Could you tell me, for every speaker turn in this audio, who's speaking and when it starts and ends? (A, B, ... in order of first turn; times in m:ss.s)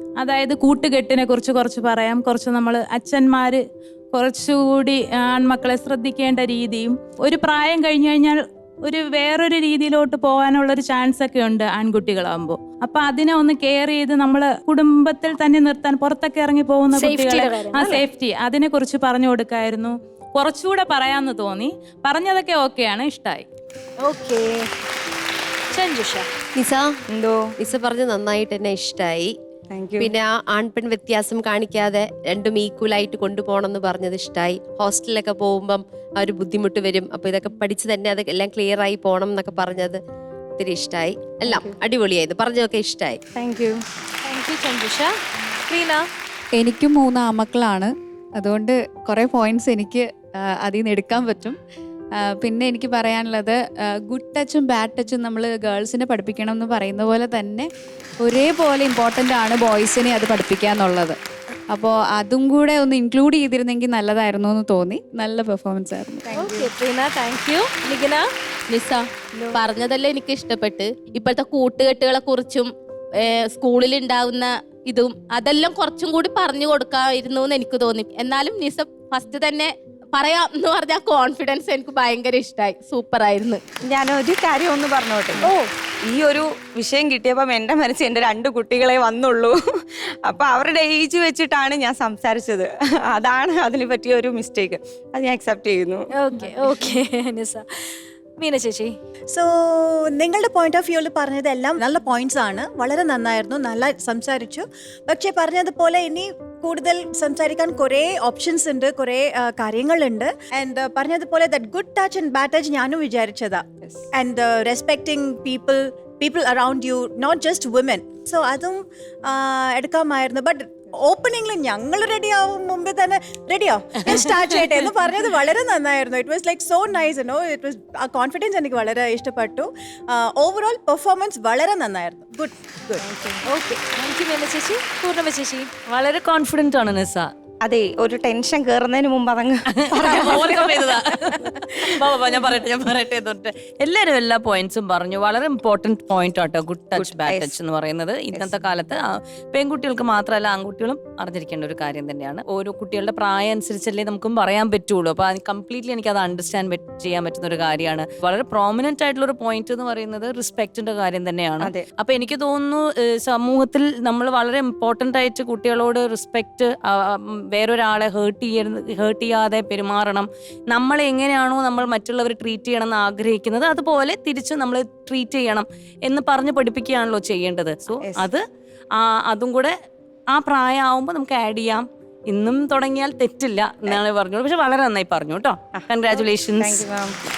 0:00.2-0:03.6 A
0:04.1-0:23.4 A
0:16.9-0:18.0 B
0:24.0-0:24.6 B
0:25.7-0:26.3 B
0:26.6-0:27.0 C
0:27.1-0:27.5 D
0:27.6-0:29.4 C
0:29.7-0:30.1 D
0:30.0-0:40.0 C
0:40.6-0:43.2 C
0:41.5-0:41.7 D
0:43.4-0:43.8 D
0:44.2-0:45.1 B
0:45.7-0:46.0 B
0:46.5-0:50.0 E
0:50.6-0:51.6 E
0:52.2-0:57.7 E
0:58.2-1:01.2 E
1:01.7-1:06.3 E
1:06.3-1:06.7 D
1:06.3-1:08.3 B
1:08.7-1:12.7 F
1:09.3-1:09.6 D
1:13.2-1:23.6 F
1:23.9-1:25.5 D
1:26.1-1:36.0 D
1:36.2-1:37.6 B
1:38.4-1:38.9 B
1:39.3-2:13.0 G
2:04.1-2:04.6 H
2:13.4-2:15.7 B
2:15.9-2:17.3 H
2:17.6-2:20.7 D
2:19.8-2:58.4 H
2:27.0-2:27.6 D
2:28.3-2:28.6 D
2:41.6-2:41.8 D
2:58.0-2:58.3 D
2:59.0-2:59.7 H
3:00.3-3:06.9 H
3:06.6-3:07.1 D